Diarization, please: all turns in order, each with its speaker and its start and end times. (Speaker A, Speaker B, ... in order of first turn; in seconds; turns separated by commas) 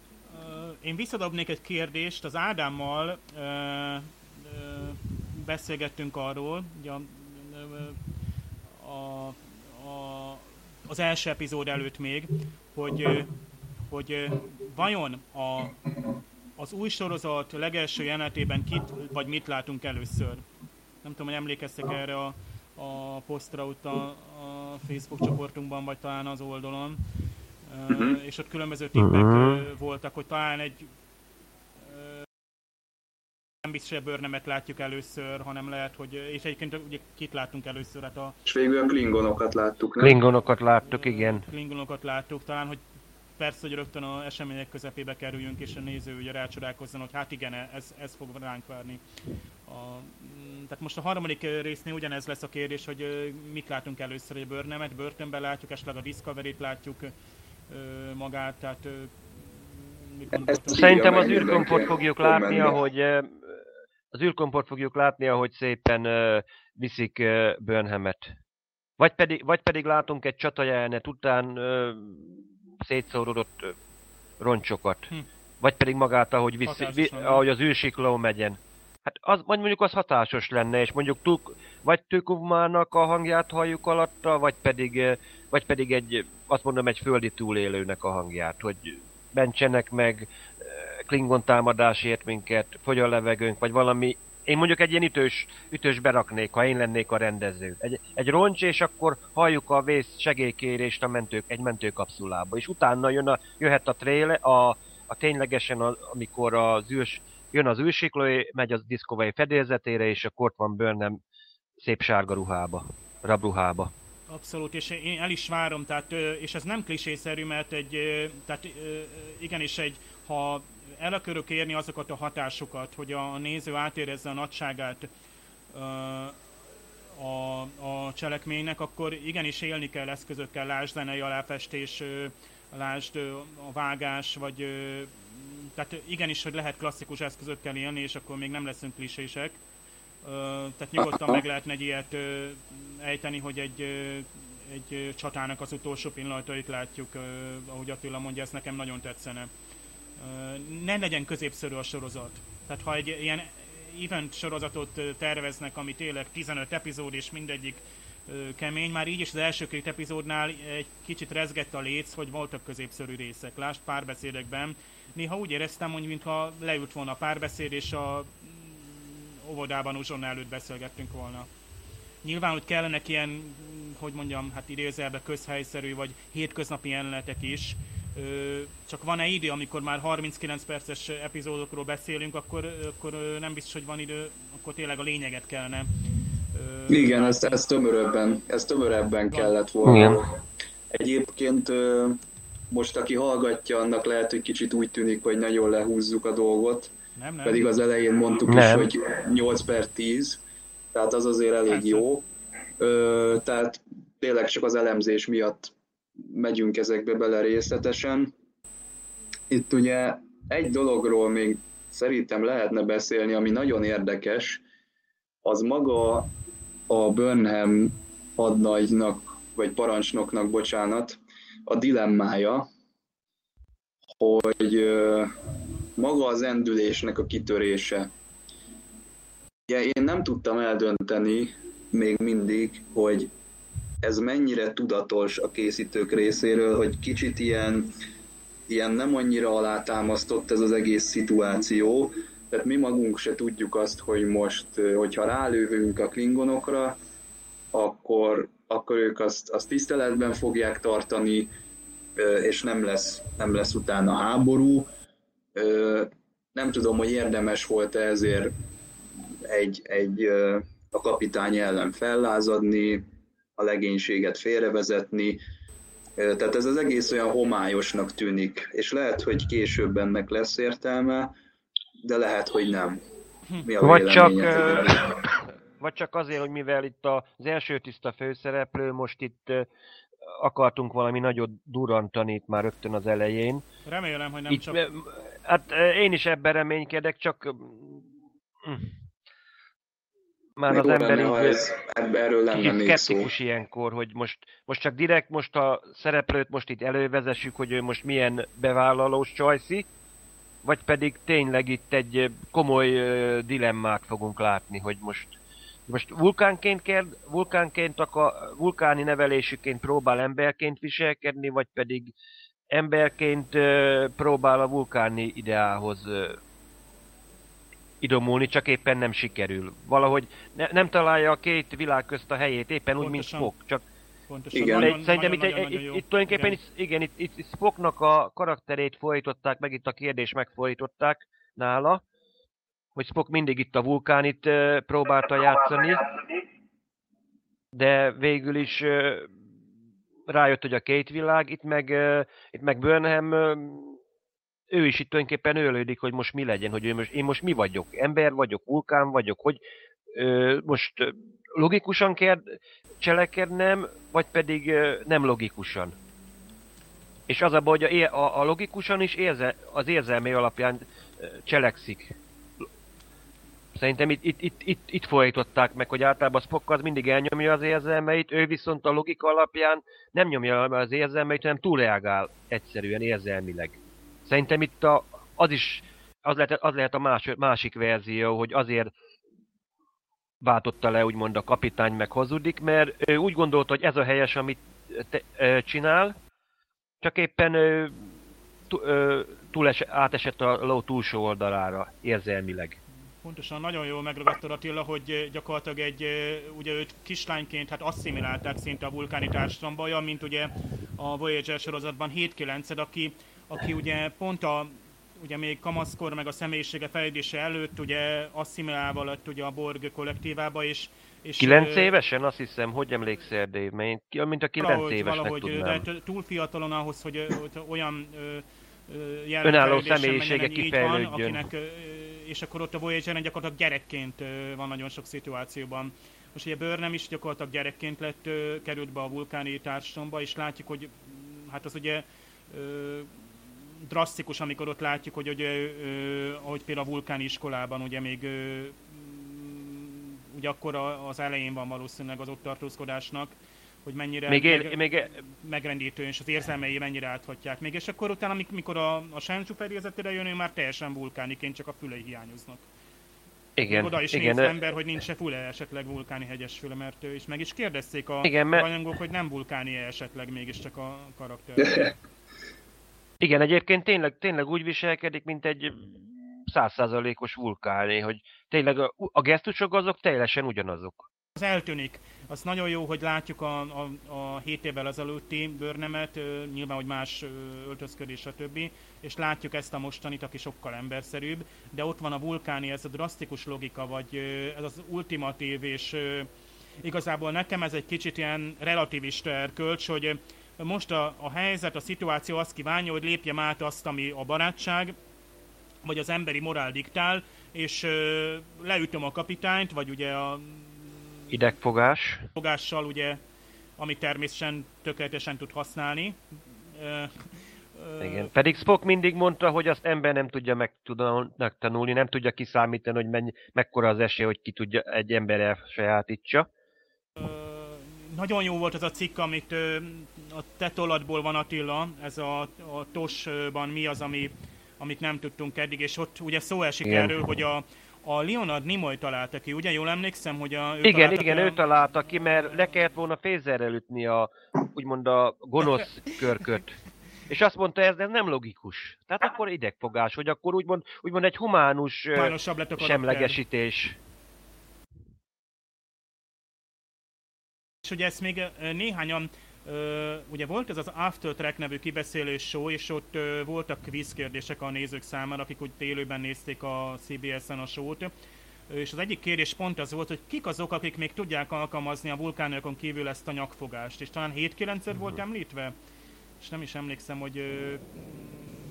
Speaker A: 0.3-8.0, Speaker A: 8.8-13.4, Speaker A: 13.9-15.8, Speaker A: 16.6-20.4, Speaker A: 21.0-27.0, Speaker A: 27.7-30.9, Speaker B: 27.9-28.2, Speaker C: 29.0-29.7, Speaker A: 31.9-32.3, Speaker A: 33.6-38.4, Speaker B: 38.5-40.2, Speaker C: 40.0-41.4, Speaker A: 40.9-42.8, Speaker A: 43.4-49.0, Speaker A: 49.7-57.1, Speaker A: 57.7-59.2, Speaker A: 60.1-61.3, Speaker B: 60.5-62.8, Speaker C: 60.7-68.3, Speaker C: 69.0-73.8, Speaker C: 74.4-111.2, Speaker A: 76.7-77.5, Speaker C: 111.8-113.9, Speaker A: 114.3-125.1, Speaker A: 125.7-126.4, Speaker A: 127.2-139.6, Speaker A: 140.2-149.5, Speaker B: 141.0-141.4, Speaker A: 150.2-171.5, Speaker A: 172.2-185.9, Speaker A: 186.5-187.6, Speaker B: 186.9-190.4, Speaker C: 189.9-190.2, Speaker B: 190.9-192.2, Speaker B: 192.7-196.9, Speaker A: 197.2-197.6, Speaker B: 197.4-200.4, Speaker C: 198.5-198.9, Speaker B: 200.9-202.2, Speaker A: 201.7-202.1, Speaker B: 202.8-208.3, Speaker B: 209.5-214.6, Speaker B: 215.4-216.3, Speaker B: 216.9-222.7, Speaker B: 224.2-225.3, Speaker B: 226.0-228.1, Speaker B: 229.7-233.3, Speaker B: 234.0-237.9, Speaker B: 238.7-247.0, Speaker B: 247.7-251.5, Speaker B: 252.2-254.9, Speaker B: 255.6-258.5, Speaker B: 259.4-263.1, Speaker B: 263.6-265.4, Speaker B: 266.2-271.3, Speaker B: 272.0-273.0, Speaker B: 273.6-275.3, Speaker C: 273.8-279.7, Speaker C: 280.3-283.6, Speaker A: 283.9-284.8, Speaker C: 284.5-288.1, Speaker C: 288.6-288.9, Speaker C: 290.6-291.6, Speaker B: 290.7-293.3, Speaker C: 292.5-299.9, Speaker C: 300.6-305.3, Speaker C: 305.9-312.1, Speaker C: 312.7-316.4, Speaker C: 318.0-323.8, Speaker A: 323.0-323.5, Speaker A: 324.3-326.6, Speaker B: 324.5-324.9, Speaker C: 324.7-332.0, Speaker C: 332.9-336.2, Speaker C: 337.7-339.3, Speaker C: 340.3-344.0, Speaker C: 344.7-349.6, Speaker C: 350.1-355.9, Speaker C: 357.3-362.2, Speaker C: 363.7-378.9, Speaker C: 380.4-386.1, Speaker C: 387.0-388.1, Speaker C: 388.7-392.8, Speaker A: 393.2-411.9, Speaker C: 411.4-415.9, Speaker A: 414.6-433.1, Speaker C: 419.4-421.4, Speaker A: 433.8-443.3, Speaker A: 443.9-452.6, Speaker C: 444.3-445.1, Speaker C: 453.6-454.5, Speaker A: 453.7-461.9, Speaker C: 458.2-458.7, Speaker B: 461.6-461.9, Speaker C: 463.2-471.1, Speaker A: 471.4-486.3, Speaker A: 486.8-494.9, Speaker A: 495.8-501.0, Speaker C: 501.3-502.3, Speaker A: 502.4-503.2, Speaker A: 503.8-506.2, Speaker A: 506.7-508.3, Speaker C: 508.0-516.5, Speaker A: 517.2-531.6, Speaker C: 526.9-527.2, Speaker C: 530.8-536.8, Speaker C: 537.3-544.0, Speaker A: 542.2-543.4, Speaker A: 547.8-558.1, Speaker A: 558.7-565.7, Speaker A: 566.4-568.3